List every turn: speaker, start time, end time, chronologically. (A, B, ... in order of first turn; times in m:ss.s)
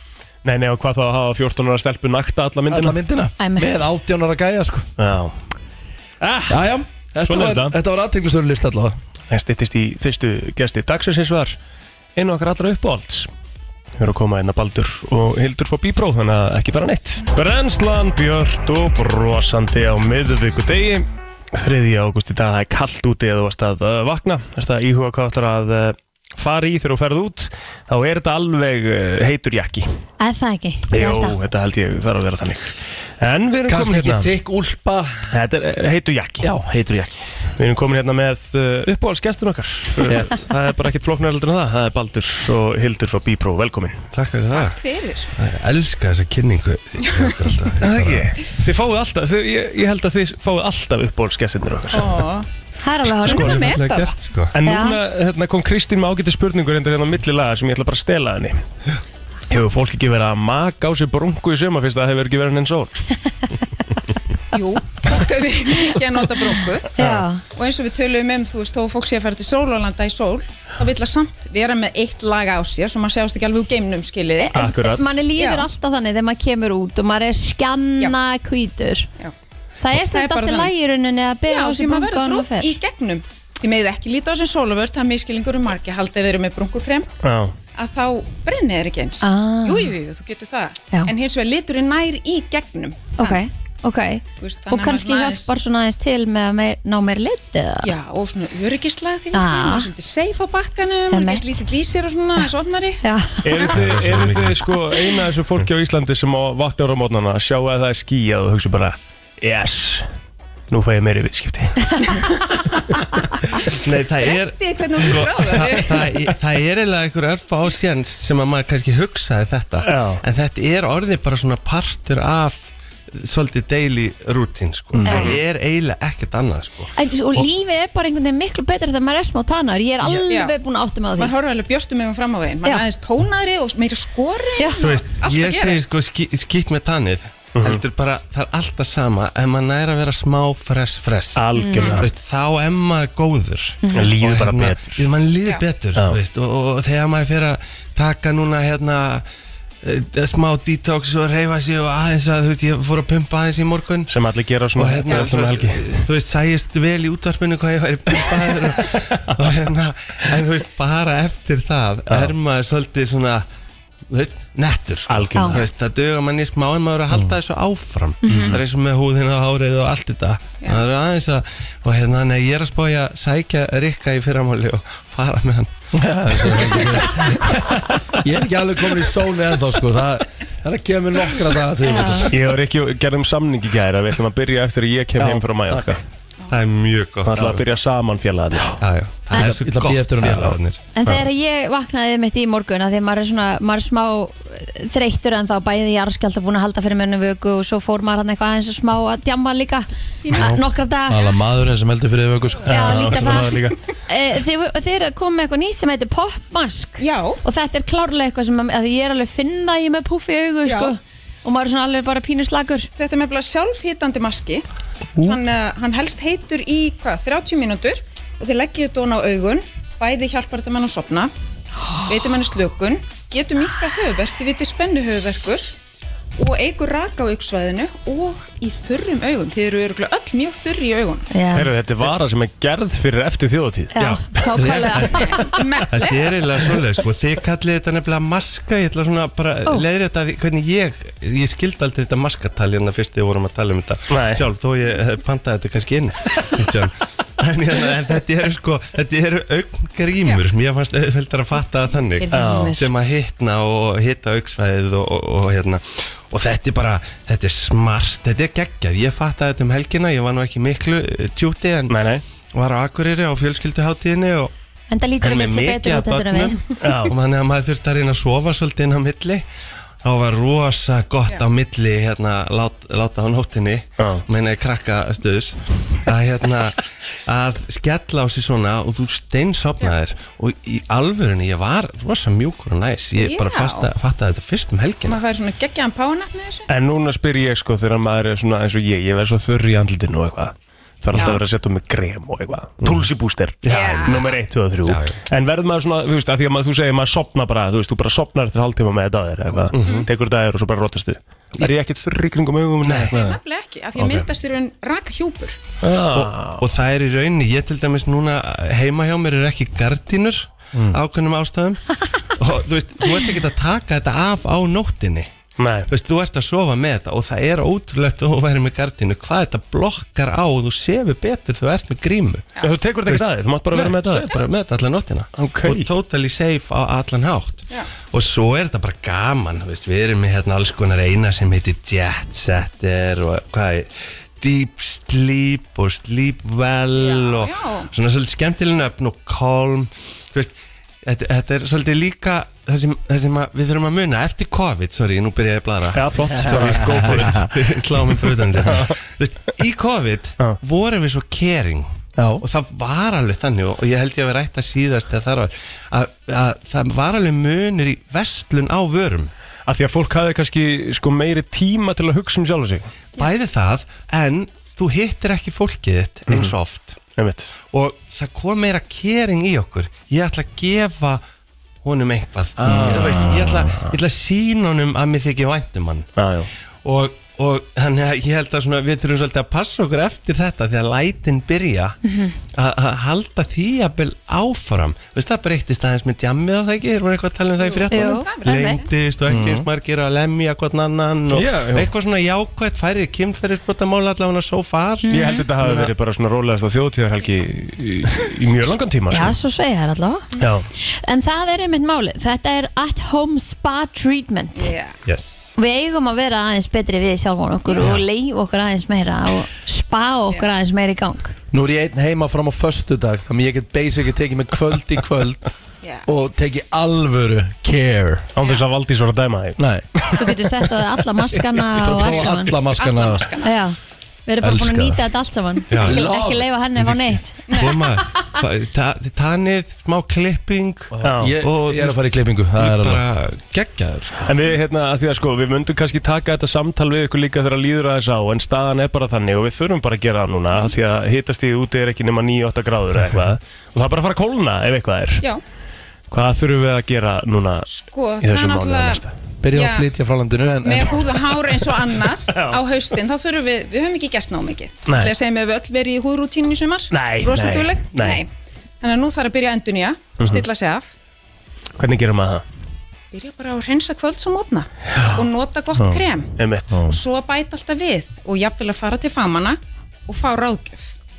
0:00.4-0:03.0 A
0:02.7-0:04.9 B
0:03.4-0:03.8 C
0:05.0-0:05.4 A
0:06.2-0:06.6 A
0:06.5-0:09.0 B
0:07.2-0:07.8 A
0:09.3-0:11.6 A
0:12.2-0:13.3 A
0:14.0-0:30.0 A
0:30.2-0:31.4 C
0:30.9-0:34.3 A
0:33.7-0:35.3 B
0:35.3-0:36.5 A
0:36.4-0:37.1 B
0:37.6-0:44.1 A
0:40.0-0:40.4 B
0:44.1-0:44.8 D
0:44.6-0:45.3 E
0:45.3-0:48.3 D
0:47.8-0:52.2 A
0:51.9-0:52.5 E
0:52.8-0:53.8 C
0:53.2-0:54.1 E
0:53.3-0:54.5 D
0:54.5-0:58.6 A
0:54.6-0:55.0 C
0:59.5-1:03.0 A
1:04.5-1:06.9 E
1:07.0-1:07.4 C
1:07.0-1:07.2 A
1:07.5-1:14.6 E
1:14.4-1:19.1 C
1:14.5-1:15.2 A
1:15.4-1:15.7 E
1:19.8-1:22.8 C
1:20.0-1:20.7 E
1:21.5-1:27.1 E
1:27.2-1:27.6 A
1:27.8-1:33.4 E
1:29.2-1:30.0 C
1:33.2-1:37.9 C
1:34.4-1:35.5 E
1:37.8-1:43.0 E
1:39.3-1:39.9 C
1:41.1-1:41.6 C
1:43.0-1:43.5 C
1:43.4-1:50.1 A
1:43.6-1:44.7 D
1:50.7-1:52.1 A
1:53.7-2:07.4 D
1:54.2-1:56.0 E
1:59.8-2:00.2 A
2:04.9-2:05.3 B
2:05.1-2:05.3 C
2:05.1-2:05.4 A
2:06.9-2:11.3 C
2:10.2-2:10.5 E
2:11.2-2:15.8 E
2:14.8-2:21.4 D
2:17.6-2:17.8 A
2:21.4-2:22.1 A
2:21.6-2:22.0 C
2:22.0-2:29.2 D
2:23.8-2:24.1 C
2:23.9-2:25.0 A
2:29.8-2:34.1 D
2:34.1-2:36.0 A
2:34.8-2:43.5 D
2:44.1-2:55.7 D
2:45.1-2:45.6 A
2:45.3-2:45.6 C
2:48.2-2:48.6 C
2:55.9-2:57.6 B
2:57.6-2:58.2 A
2:58.2-3:02.4 B
3:01.9-3:02.3 C
3:02.3-3:06.0 A
3:05.2-3:06.0 B
3:06.5-3:07.7 D
3:07.3-3:08.8 A
3:08.8-3:11.2 D
3:09.3-3:10.6 B
3:11.0-3:21.3 C
3:20.2-3:20.5 E
3:20.3-3:23.3 B
3:22.7-3:23.8 A
3:22.7-3:23.6 C
3:24.1-3:32.9 C
3:27.0-3:27.4 E
3:30.6-3:31.0 E
3:33.0-3:34.6 E
3:35.2-3:41.3 E
3:42.1-3:45.7 E
3:46.4-3:51.3 E
3:51.3-3:51.7 C
3:51.5-3:54.0 A
3:53.9-3:55.6 C
3:54.0-3:55.0 D
3:54.6-3:55.1 B
3:55.2-3:56.3 E
3:55.9-4:22.0 D
4:04.1-4:04.4 A
4:12.2-4:12.9 C
4:12.3-4:12.8 A
4:21.9-4:22.2 A
4:22.5-4:24.5 D
4:24.9-4:26.6 C
4:25.2-4:29.5 D
4:26.8-4:27.1 A
4:30.0-4:45.2 D
4:34.0-4:34.2 A
4:43.2-4:43.9 E
4:45.0-4:46.7 E
4:46.7-5:03.4 A
4:51.1-4:51.4 E
4:53.6-4:54.2 D
4:53.7-4:54.3 E
4:54.8-4:55.2 D
4:59.8-5:00.0 D
4:59.8-5:00.1 E
5:02.8-5:03.1 D
5:03.1-5:05.6 E
5:04.0-5:04.3 A
5:05.8-5:06.6 A
5:06.0-5:15.3 D
5:15.6-5:15.9 A
5:15.9-5:22.5 D
5:22.6-5:24.4 A
5:23.1-5:59.3 D
5:25.4-5:25.9 A
5:37.0-5:37.9 E
5:46.0-5:47.5 A
5:46.5-5:47.5 B
5:52.2-5:52.4 B
5:59.7-6:02.9 A
6:03.2-6:07.0 D
6:07.2-6:07.5 A
6:07.7-6:11.2 D
6:11.8-6:16.1 D
6:12.6-6:13.7 B
6:12.7-6:13.0 A
6:16.2-6:16.5 A
6:16.8-6:22.0 D
6:22.0-6:22.4 C
6:22.5-6:35.9 D
6:27.6-6:28.9 E
6:27.9-6:28.8 C
6:29.3-6:29.7 B
6:31.3-6:31.9 A
6:35.0-6:35.4 C
6:35.1-6:39.4 A
6:39.1-6:40.3 C
6:40.4-6:40.7 A
6:40.8-6:44.7 C
6:44.6-6:45.0 E
6:45.1-6:45.5 D
6:45.6-6:51.3 C
6:51.5-6:55.5 B
6:56.0-6:58.3 B
6:58.4-7:00.2 A
6:59.6-6:59.9 B
7:00.2-7:02.6 C
7:01.7-7:03.4 B
7:02.6-7:03.5 E
7:03.4-7:07.6 C
7:04.4-7:05.0 B
7:05.7-7:06.0 D
7:05.7-7:07.0 B
7:07.5-7:07.8 E
7:07.6-7:14.3 D
7:10.9-7:13.0 B
7:11.0-7:11.4 A
7:14.3-7:25.2 A
7:26.1-7:27.7 A
7:27.7-7:29.9 E
7:28.2-7:29.1 A
7:29.4-7:31.1 B
7:30.6-7:38.3 E
7:32.3-7:32.6 A
7:34.9-7:35.1 A
7:36.9-7:38.2 A
7:38.8-7:40.9 E
7:41.8-7:42.4 A
7:43.1-7:46.3 E
7:45.8-7:46.0 B
7:46.4-7:46.8 A
7:46.7-7:47.0 B
7:46.8-7:50.9 E